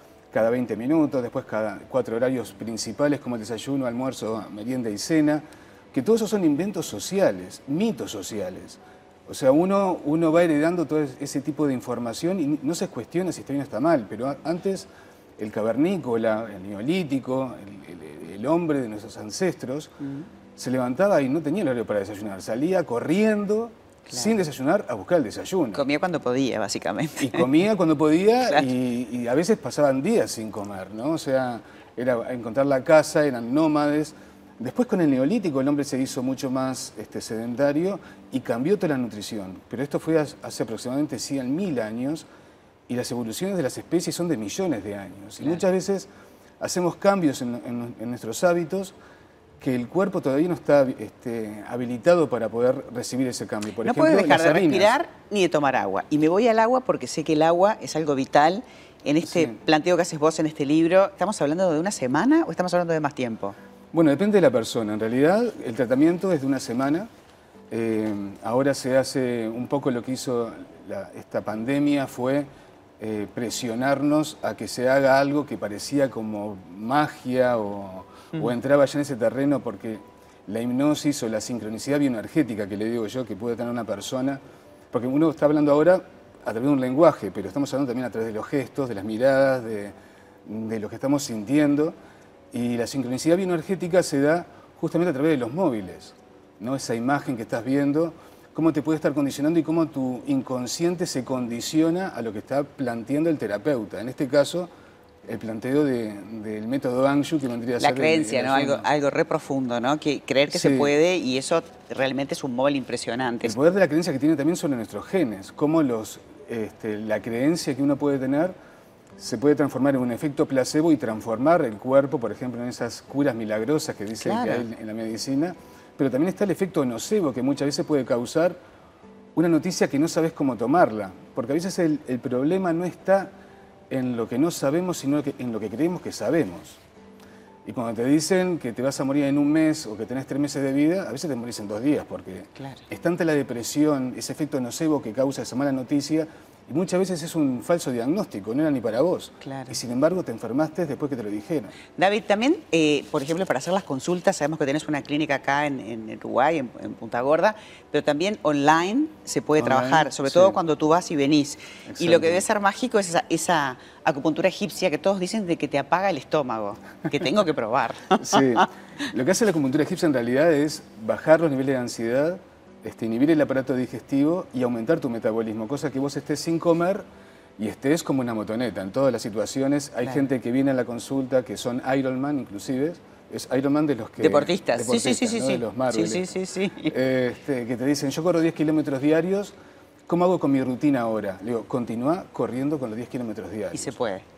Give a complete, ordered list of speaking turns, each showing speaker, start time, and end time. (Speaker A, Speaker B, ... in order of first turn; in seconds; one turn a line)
Speaker A: 0.3-19.9
Speaker B: 20.0-20.3
Speaker A: 20.6-25.8
Speaker B: 24.1-24.4
Speaker B: 25.7-27.5
Speaker A: 27.2-42.3
Speaker A: 42.9-46.1
Speaker A: 46.6-49.0
Speaker A: 49.6-54.9
Speaker B: 53.8-63.6
Speaker A: 59.2-59.6
Speaker A: 63.9-67.1
Speaker A: 67.7-72.5
Speaker A: 73.0-84.4
Speaker A: 84.9-89.9
Speaker A: 90.5-92.0
Speaker A: 92.5-104.7
Speaker A: 105.3-108.9
Speaker B: 107.8-113.5
Speaker A: 110.5-110.9
Speaker A: 113.4-118.5
Speaker A: 119.2-128.6
Speaker B: 124.2-124.7
Speaker A: 129.3-133.3
Speaker A: 133.9-136.8
Speaker A: 137.7-151.7
Speaker B: 142.6-142.8
Speaker B: 149.4-149.8
Speaker B: 152.0-168.7
Speaker A: 159.6-160.6
Speaker A: 161.9-162.4
Speaker A: 168.2-177.1
Speaker A: 177.6-186.3
Speaker B: 184.2-186.9
Speaker A: 186.9-189.6
Speaker A: 190.1-194.0
Speaker B: 193.7-194.2